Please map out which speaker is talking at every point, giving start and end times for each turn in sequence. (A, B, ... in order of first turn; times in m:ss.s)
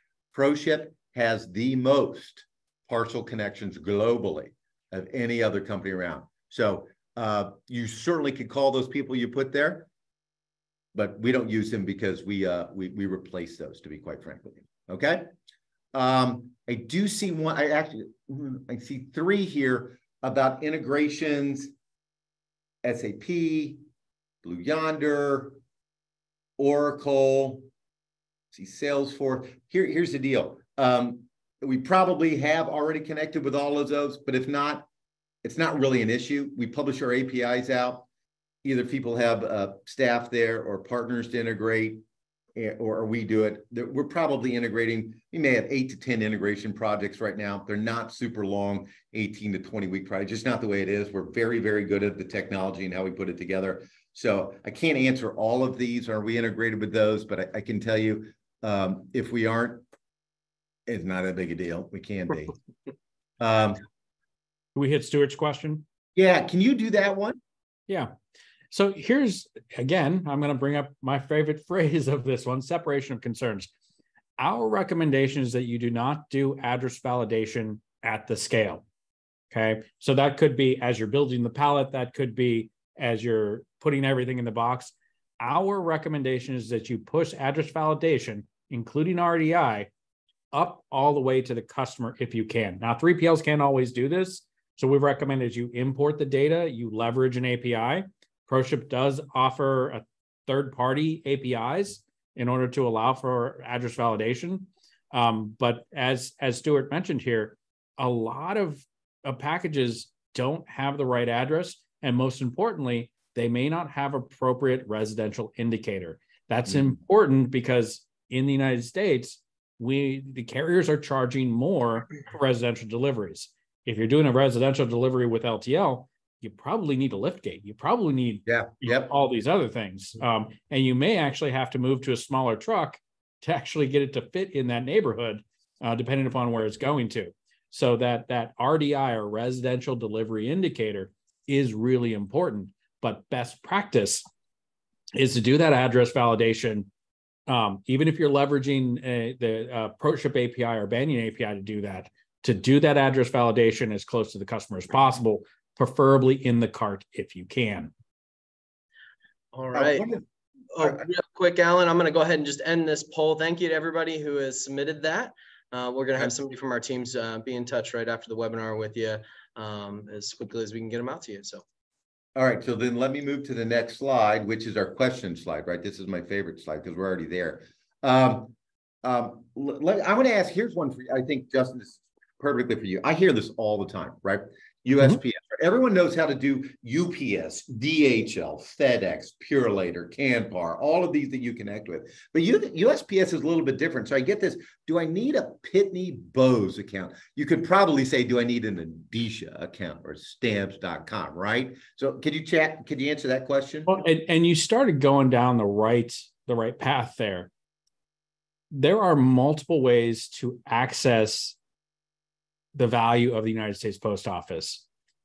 0:00.3-0:09.9 A
0:10.9-0:15.3 A
0:15.9-0:21.7 A
0:22.8-0:23.8 A
0:24.4-0:25.6 A
0:26.6-0:27.7 A
0:28.5-0:34.8 A
0:35.4-0:38.1 A
0:38.6-0:42.0 A
0:42.6-0:59.8 A
1:00.9-1:02.6 A
1:03.4-1:03.8 A
1:04.7-1:05.8 B
1:06.1-1:07.4 A
1:08.7-1:13.7 B
1:14.4-1:18.8 B
1:19.5-1:29.9 B
1:30.5-2:24.2 B
2:08.4-2:09.1 A
2:25.2-2:26.9 B
2:27.5-2:37.9 B
2:39.5-2:40.1 C
2:39.7-2:40.2 A
2:40.7-2:51.6 C
2:40.8-2:41.0 A
2:52.4-3:24.0 A
3:23.9-3:27.5 B
3:28.7-3:31.6 B
3:32.7-3:34.8 B